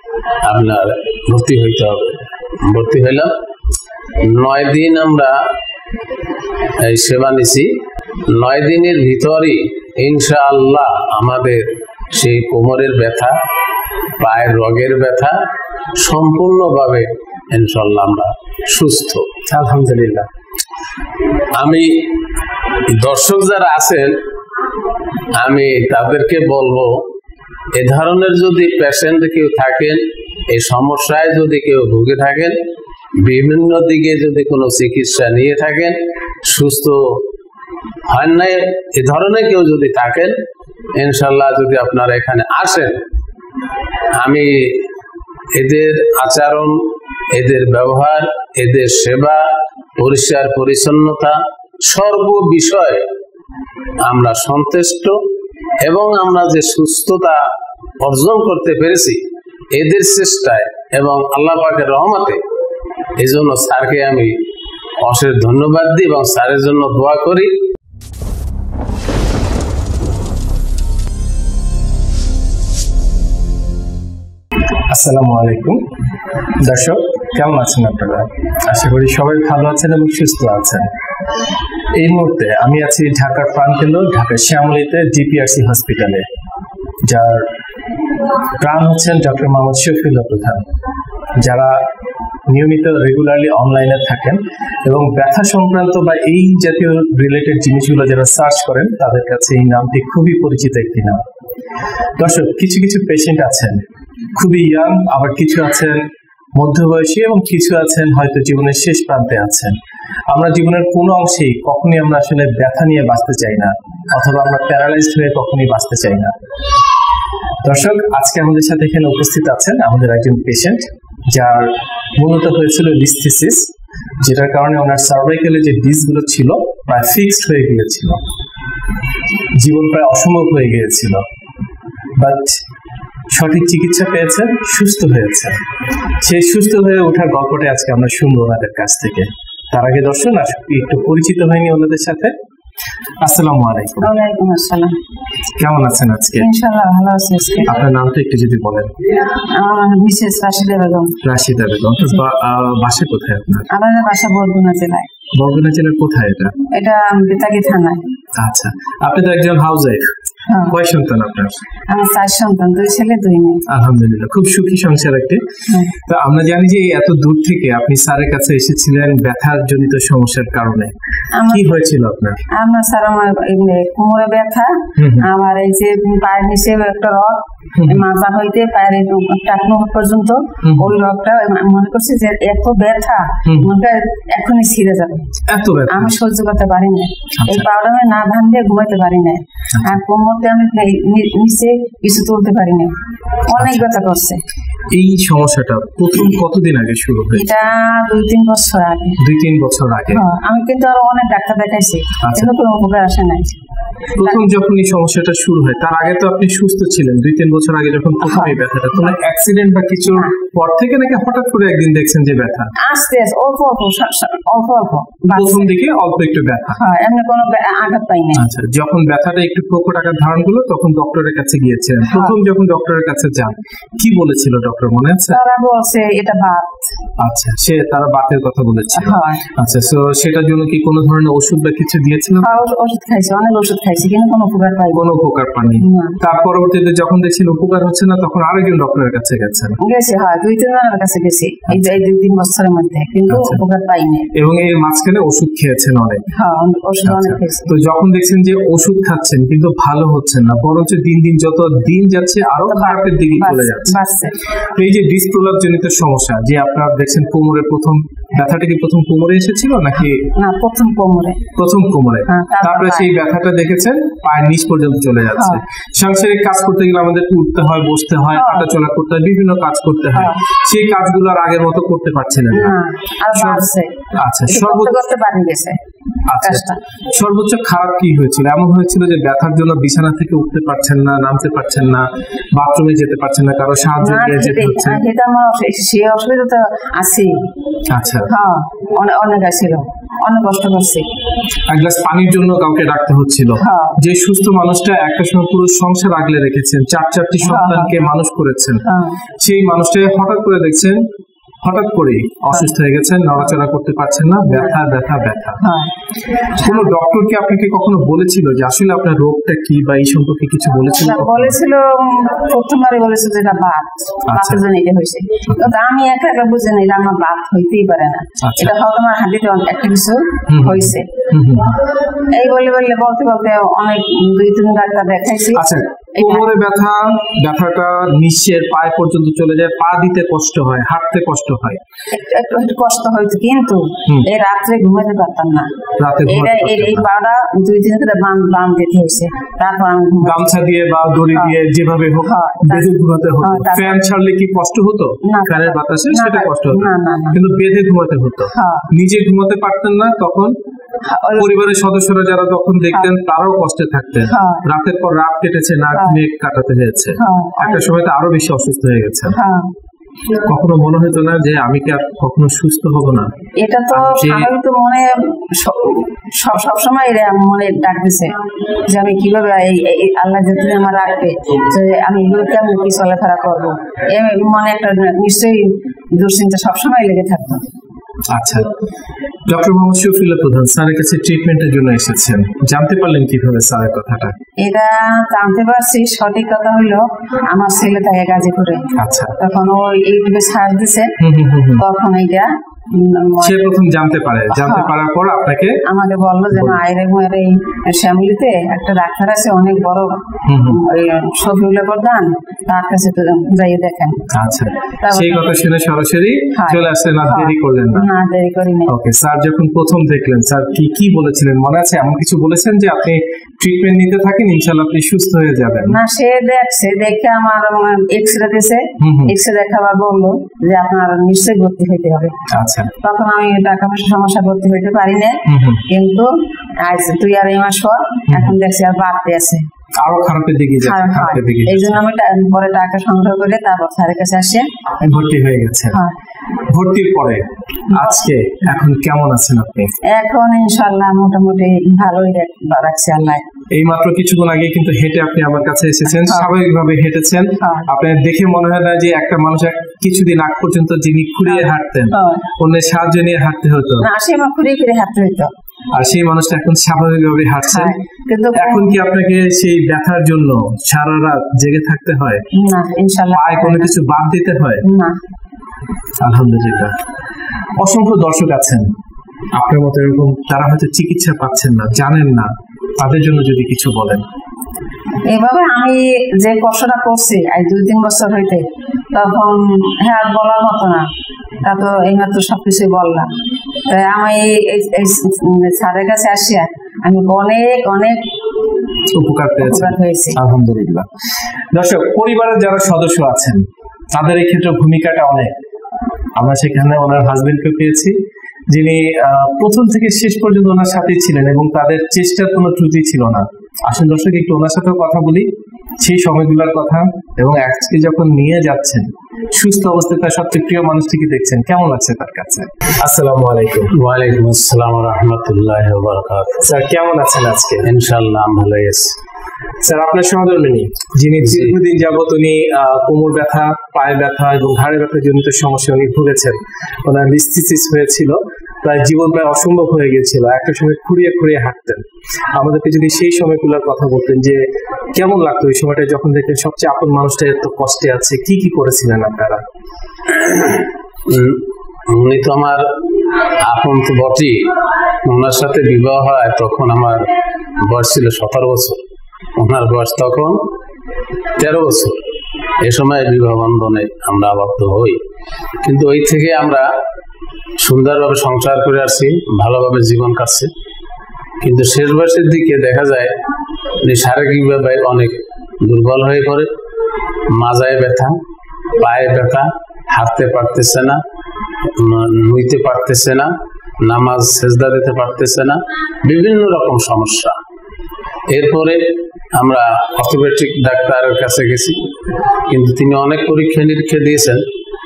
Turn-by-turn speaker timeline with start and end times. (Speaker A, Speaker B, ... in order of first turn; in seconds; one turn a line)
Speaker A: 0.4-3.3
Speaker A: 4.2-5.4
Speaker A: 6.8-7.7
Speaker A: 8.3-13.3
Speaker A: 14.2-15.3
Speaker A: 16.0-19.2
Speaker B: 19.5-20.3
Speaker A: 21.6-21.9
Speaker A: 22.9-24.1
Speaker A: 25.4-26.9
Speaker A: 27.7-30.0
Speaker A: 30.5-32.5
Speaker A: 33.2-37.2
Speaker A: 38.1-40.3
Speaker A: 41.0-43.0
Speaker A: 44.2-44.5
Speaker A: 45.5-46.7
Speaker A: 47.3-49.4
Speaker A: 50.0-53.0
Speaker A: 54.0-55.1
Speaker A: 55.8-57.4
Speaker A: 58.0-59.2
Speaker A: 59.7-62.4
Speaker A: 63.2-64.3
Speaker A: 65.0-67.5
Speaker B: 74.9-75.8
Speaker B: 76.6-80.9
Speaker B: 82.0-86.2
Speaker B: 87.1-87.5
Speaker B: 88.6-90.6
Speaker B: 91.4-91.8
Speaker B: 92.5-101.2
Speaker B: 102.2-103.8
Speaker B: 104.3-106.0
Speaker B: 106.5-109.7
Speaker B: 110.3-116.3
Speaker B: 117.6-123.7
Speaker B: 124.2-128.2
Speaker B: 129.6-131.2
Speaker B: 132.2-132.6
Speaker B: 133.3-135.6
Speaker B: 136.2-142.3
Speaker B: 143.2-144.1
Speaker C: 144.0-144.9
Speaker B: 145.6-146.5
Speaker C: 146.3-147.7
Speaker B: 147.7-148.9
Speaker C: 149.5-151.2
Speaker B: 151.2-153.7
Speaker C: 153.7-155.1
Speaker B: 155.3-156.5
Speaker C: 156.7-158.0
Speaker B: 158.4-160.1
Speaker C: 160.5-160.8
Speaker B: 160.7-161.5
Speaker C: 161.9-163.6
Speaker B: 163.7-165.4
Speaker C: 165.7-165.9
Speaker B: 166.0-170.9
Speaker C: 171.3-171.8
Speaker B: 171.5-172.4
Speaker C: 172.6-185.3
Speaker B: 175.0-175.3
Speaker B: 177.8-178.0
Speaker B: 180.6-180.9
Speaker B: 183.4-183.7
Speaker B: 185.5-186.2
Speaker C: 185.9-192.9
Speaker B: 187.4-187.7
Speaker C: 193.5-194.4
Speaker B: 193.5-193.8
Speaker B: 194.9-197.5
Speaker C: 197.3-199.2
Speaker B: 199.2-200.2
Speaker C: 200.1-203.5
Speaker B: 202.2-202.5
Speaker B: 204.2-212.7
Speaker C: 208.2-208.6
Speaker C: 212.8-215.7
Speaker B: 215.3-216.8
Speaker C: 216.7-218.4
Speaker B: 218.3-225.4
Speaker C: 222.1-222.3
Speaker C: 225.3-226.7
Speaker B: 227.2-232.6
Speaker C: 229.0-229.4
Speaker C: 232.4-235.1
Speaker B: 234.9-239.8
Speaker C: 235.8-236.2
Speaker C: 239.8-244.3
Speaker B: 241.7-242.0
Speaker B: 243.3-243.6
Speaker B: 244.3-246.2
Speaker C: 246.3-247.7
Speaker B: 247.0-254.0
Speaker C: 252.7-254.4
Speaker B: 254.7-260.3
Speaker C: 260.3-261.4
Speaker B: 261.6-272.8
Speaker C: 262.3-263.1
Speaker C: 265.3-265.6
Speaker C: 268.3-268.7
Speaker C: 270.1-270.4
Speaker C: 272.5-275.8
Speaker B: 273.3-273.7
Speaker B: 274.2-274.9
Speaker B: 276.3-285.0
Speaker C: 276.4-276.8
Speaker C: 284.0-287.3
Speaker B: 287.9-288.3
Speaker C: 288.3-291.0
Speaker B: 291.7-298.8
Speaker C: 293.6-294.0
Speaker C: 297.4-297.9
Speaker C: 298.9-299.1
Speaker B: 299.4-301.0
Speaker B: 301.6-305.6
Speaker C: 304.5-304.8
Speaker C: 305.6-305.9
Speaker B: 306.6-311.6
Speaker C: 310.9-321.1
Speaker B: 314.3-314.6
Speaker B: 318.4-318.7
Speaker B: 320.5-321.8
Speaker C: 322.2-326.5
Speaker B: 325.5-331.8
Speaker C: 332.1-335.7
Speaker B: 336.0-337.1
Speaker C: 336.2-340.5
Speaker B: 340.2-350.5
Speaker C: 342.2-344.0
Speaker C: 345.2-347.4
Speaker C: 348.5-348.9
Speaker C: 351.1-351.5
Speaker B: 351.4-359.4
Speaker C: 354.2-354.6
Speaker C: 355.9-356.2
Speaker C: 357.1-357.9
Speaker C: 359.3-359.7
Speaker B: 360.4-363.3
Speaker C: 363.6-368.3
Speaker B: 363.9-364.5
Speaker C: 368.9-377.6
Speaker B: 378.3-378.7
Speaker B: 379.5-384.3
Speaker C: 384.6-388.8
Speaker B: 389.0-389.4
Speaker C: 389.4-391.1
Speaker B: 391.2-391.8
Speaker C: 391.8-393.6
Speaker B: 393.4-395.8
Speaker C: 394.5-394.9
Speaker C: 395.9-404.3
Speaker B: 396.5-396.8
Speaker B: 400.5-400.8
Speaker B: 404.3-408.1
Speaker C: 405.0-405.4
Speaker C: 406.5-408.9
Speaker B: 408.9-416.0
Speaker C: 415.9-422.3
Speaker B: 419.0-419.3
Speaker B: 422.5-422.9
Speaker C: 423.0-426.3
Speaker B: 425.5-425.8
Speaker C: 426.8-429.6
Speaker B: 428.3-428.5
Speaker B: 430.0-432.0
Speaker C: 430.8-434.6
Speaker B: 435.0-436.0
Speaker B: 436.7-439.9
Speaker C: 437.9-438.2
Speaker C: 440.1-443.4
Speaker B: 443.7-454.1
Speaker C: 446.2-446.5
Speaker C: 447.6-447.9
Speaker C: 451.5-452.4
Speaker C: 454.0-455.5
Speaker B: 455.9-458.0
Speaker C: 457.7-458.9
Speaker B: 458.5-462.4
Speaker C: 462.5-463.9
Speaker B: 463.3-464.8
Speaker C: 464.8-465.1
Speaker B: 466.2-466.9
Speaker B: 467.8-468.9
Speaker B: 469.6-474.2
Speaker C: 475.3-481.0
Speaker C: 481.6-483.3
Speaker C: 483.9-488.2
Speaker B: 489.1-491.1
Speaker C: 489.6-490.4
Speaker B: 491.7-495.5
Speaker B: 496.4-498.1
Speaker B: 498.7-505.5
Speaker B: 506.0-513.9
Speaker A: 513.9-516.6
Speaker B: 516.6-517.9
Speaker A: 517.8-519.1
Speaker B: 519.8-532.0
Speaker A: 521.4-521.7
Speaker B: 532.5-534.6
Speaker B: 535.1-539.6
Speaker A: 540.3-542.8
Speaker A: 543.6-544.7
Speaker A: 545.2-547.2
Speaker A: 547.8-549.0
Speaker A: 549.5-550.6
Speaker A: 551.6-552.2
Speaker A: 552.8-555.2
Speaker A: 555.8-556.9
Speaker A: 557.8-560.7
Speaker A: 561.6-563.3
Speaker A: 564.0-566.7
Speaker A: 567.5-568.4
Speaker A: 569.0-571.2
Speaker A: 572.0-573.5
Speaker A: 574.0-577.5
Speaker A: 578.5-579.0
Speaker A: 579.5-582.0
Speaker A: 582.7-584.6